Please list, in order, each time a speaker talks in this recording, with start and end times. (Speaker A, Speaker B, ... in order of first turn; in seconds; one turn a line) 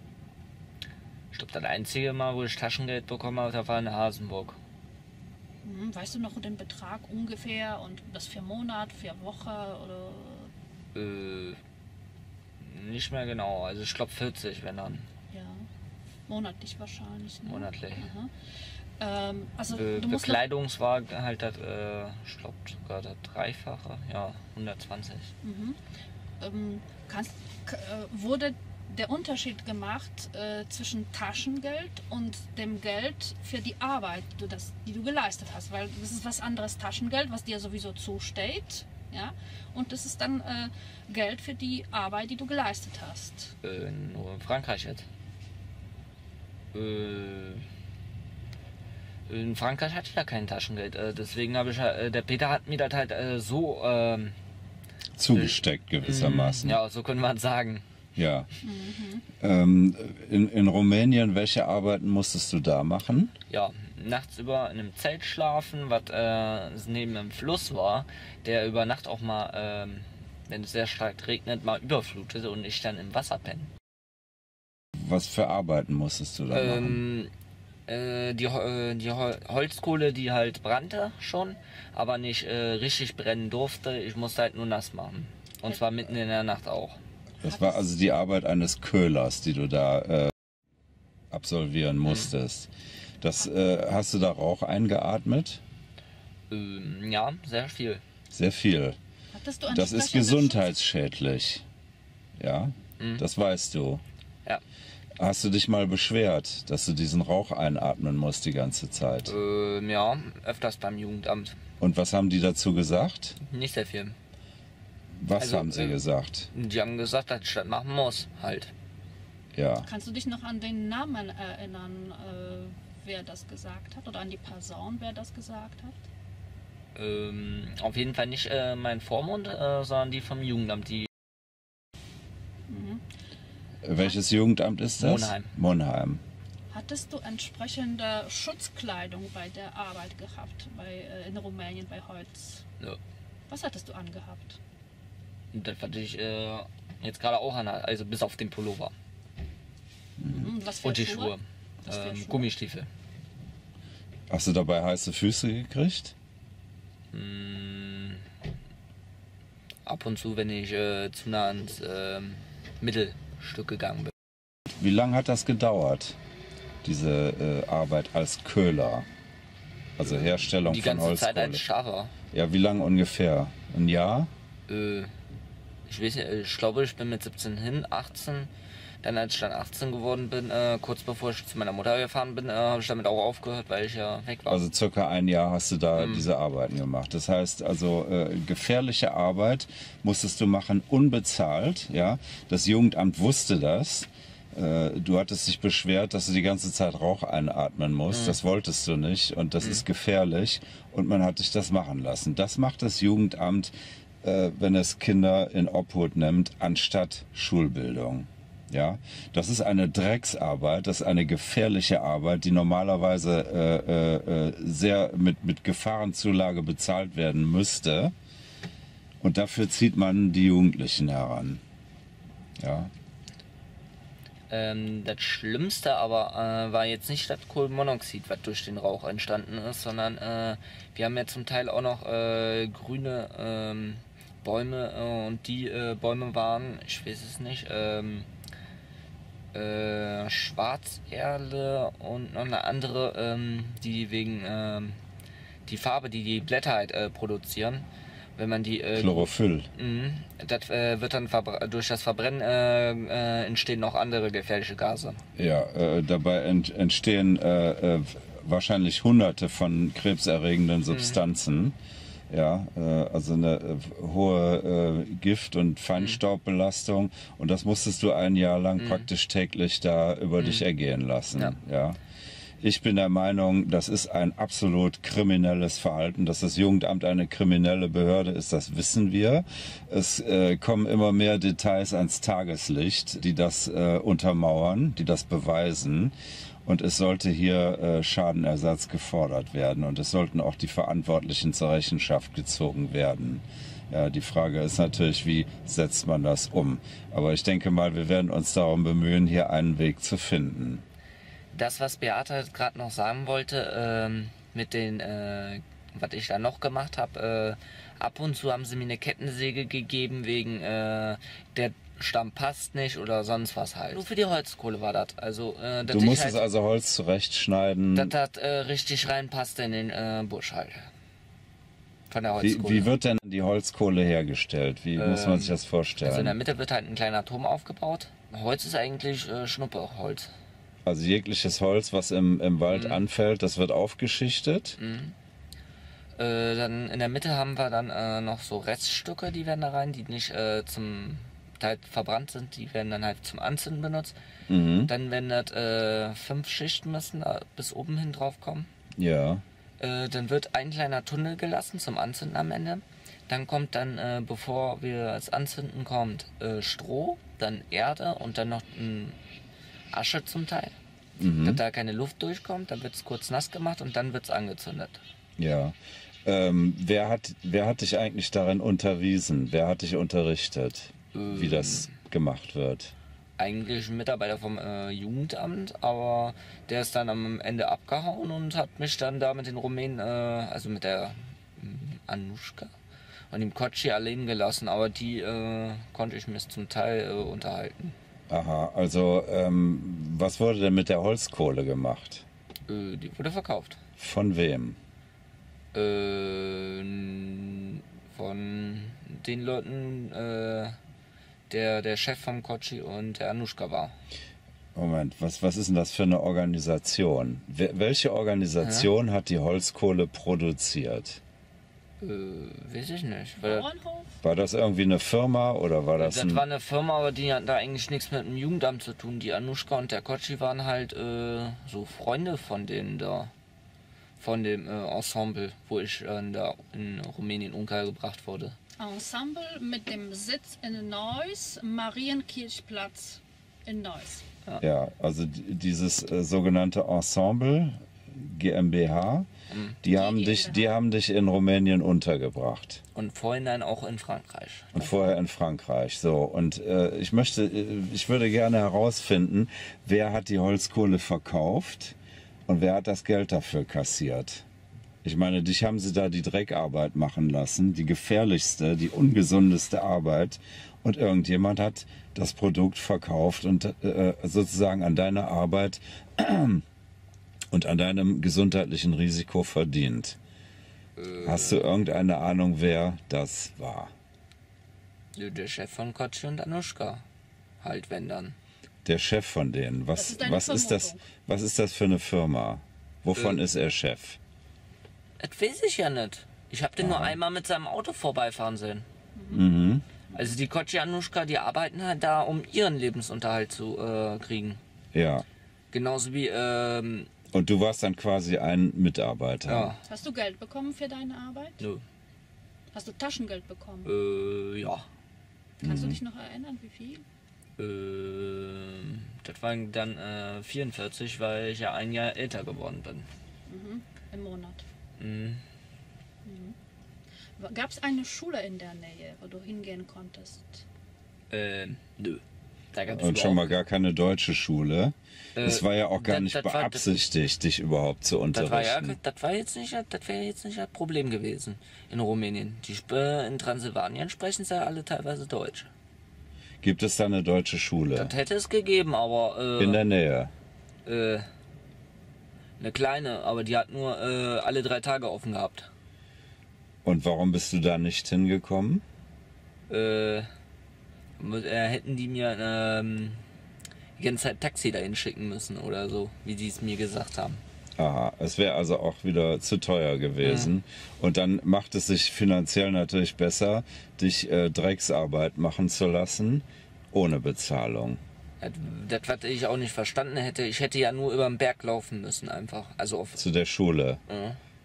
Speaker A: 1.3-4.6
Speaker B: 5.6-10.5
Speaker A: 10.9-11.6
Speaker A: 12.6-15.1
Speaker B: 15.3-15.7
Speaker B: 16.3-18.3
Speaker A: 17.4-18.1
Speaker B: 19.0-20.4
Speaker A: 19.7-25.3
Speaker B: 25.4-25.8
Speaker B: 26.4-43.5
Speaker A: 43.6-45.1
Speaker A: 46.7-47.6
Speaker A: 49.3-54.4
Speaker C: 55.1-56.8
Speaker A: 55.3-57.8
Speaker C: 58.1-58.5
Speaker B: 58.6-59.2
Speaker C: 59.4-63.3
Speaker A: 63.5-73.7
Speaker C: 74.9-77.0
Speaker A: 76.5-77.3
Speaker A: 77.9-87.0
Speaker C: 87.4-90.3
Speaker B: 87.4-87.8
Speaker C: 91.3-95.6
Speaker A: 96.5-98.0
Speaker C: 98.3-99.0
Speaker B: 99.3-100.7
Speaker C: 99.7-101.6
Speaker C: 102.4-104.0
Speaker C: 105.2-109.3
Speaker A: 109.2-111.6
Speaker C: 111.8-113.4
Speaker A: 113.4-114.2
Speaker C: 115.2-116.5
Speaker A: 115.4-116.0
Speaker A: 116.5-118.7
Speaker C: 119.5-119.9
Speaker B: 119.8-126.0
Speaker A: 126.9-131.1
Speaker B: 132.7-133.0
Speaker C: 133.8-136.2
Speaker A: 135.0-135.5
Speaker B: 136.7-142.6
Speaker B: 143.5-144.6
Speaker A: 145.5-148.9
Speaker C: 150.2-150.5
Speaker B: 150.3-152.5
Speaker A: 150.8-152.9
Speaker C: 154.3-156.1
Speaker A: 157.1-158.2
Speaker A: 159.8-164.1
Speaker C: 164.7-166.2
Speaker C: 166.8-169.1
Speaker C: 170.0-171.6
Speaker A: 170.3-172.1
Speaker C: 172.3-174.3
Speaker A: 174.7-175.1
Speaker A: 175.9-178.5
Speaker A: 179.0-184.6
Speaker C: 184.5-203.7
Speaker A: 185.9-186.2
Speaker A: 198.1-198.4
Speaker C: 204.2-218.1
Speaker C: 219.2-221.6
Speaker C: 222.6-222.9
Speaker A: 224.5-238.3
Speaker A: 239.5-245.0
Speaker A: 245.7-247.8
Speaker A: 248.4-255.2
Speaker C: 248.9-249.7
Speaker C: 255.3-261.8
Speaker A: 260.9-261.2
Speaker C: 262.3-272.0
Speaker A: 268.8-269.1
Speaker C: 272.6-286.1
Speaker C: 286.6-300.8
Speaker A: 301.5-316.4
Speaker C: 315.9-318.1
Speaker A: 317.9-320.9
Speaker A: 322.1-322.9
Speaker C: 322.4-326.4
Speaker A: 324.9-330.3
Speaker C: 330.8-334.8
Speaker A: 332.7-333.0
Speaker A: 334.8-335.1
Speaker A: 336.1-344.1
Speaker C: 344.5-344.9
Speaker A: 344.8-348.7
Speaker C: 348.9-349.4
Speaker A: 349.8-359.2
Speaker A: 359.9-360.8
Speaker C: 361.2-361.6
Speaker A: 361.4-365.0
Speaker C: 365.4-372.9
Speaker A: 371.1-371.9
Speaker A: 373.4-382.7
Speaker A: 383.3-387.9
Speaker C: 388.3-392.2
Speaker A: 392.7-393.8
Speaker C: 394.0-394.8
Speaker A: 395.7-400.8
Speaker A: 401.5-403.9
Speaker C: 404.7-411.2
Speaker A: 408.6-408.9
Speaker A: 412.0-413.6
Speaker B: 413.4-414.2
Speaker C: 414.2-416.4
Speaker A: 416.0-423.3
Speaker A: 424.2-428.6
Speaker B: 428.8-434.2
Speaker C: 434.6-439.3
Speaker A: 439.5-439.8
Speaker C: 439.8-442.8
Speaker B: 439.9-440.7
Speaker A: 442.9-445.1
Speaker C: 444.7-451.9
Speaker C: 452.5-454.4
Speaker C: 455.0-466.6
Speaker C: 467.5-470.2
Speaker A: 471.0-471.6
Speaker C: 471.2-473.9
Speaker A: 475.1-477.0
Speaker A: 477.6-478.4
Speaker C: 478.8-484.2
Speaker B: 479.9-481.0
Speaker A: 483.1-483.4
Speaker A: 485.2-488.9
Speaker C: 486.8-487.2
Speaker B: 489.1-489.4
Speaker C: 489.3-489.8
Speaker A: 490.1-494.6
Speaker C: 494.9-495.2
Speaker A: 495.7-497.1
Speaker C: 497.3-499.7
Speaker A: 499.4-499.8
Speaker B: 499.9-501.6
Speaker B: 502.7-503.9
Speaker A: 503.8-504.8
Speaker B: 505.6-507.0
Speaker C: 505.6-506.0
Speaker A: 507.6-513.1
Speaker B: 513.5-514.6
Speaker A: 515.0-515.4
Speaker B: 516.2-516.5
Speaker B: 517.4-520.6
Speaker A: 521.3-522.2
Speaker A: 522.7-523.6
Speaker C: 522.9-529.0
Speaker A: 525.4-526.9
Speaker A: 528.3-535.7
Speaker C: 536.6-538.1
Speaker A: 537.9-539.8
Speaker C: 539.6-540.3
Speaker A: 540.8-541.2
Speaker A: 542.6-545.7
Speaker C: 546.8-548.8
Speaker A: 549.7-550.3
Speaker A: 551.2-553.2
Speaker A: 554.0-557.4
Speaker C: 557.8-568.0
Speaker A: 560.2-560.5
Speaker A: 568.4-573.2
Speaker C: 573.2-574.0
Speaker A: 574.1-574.4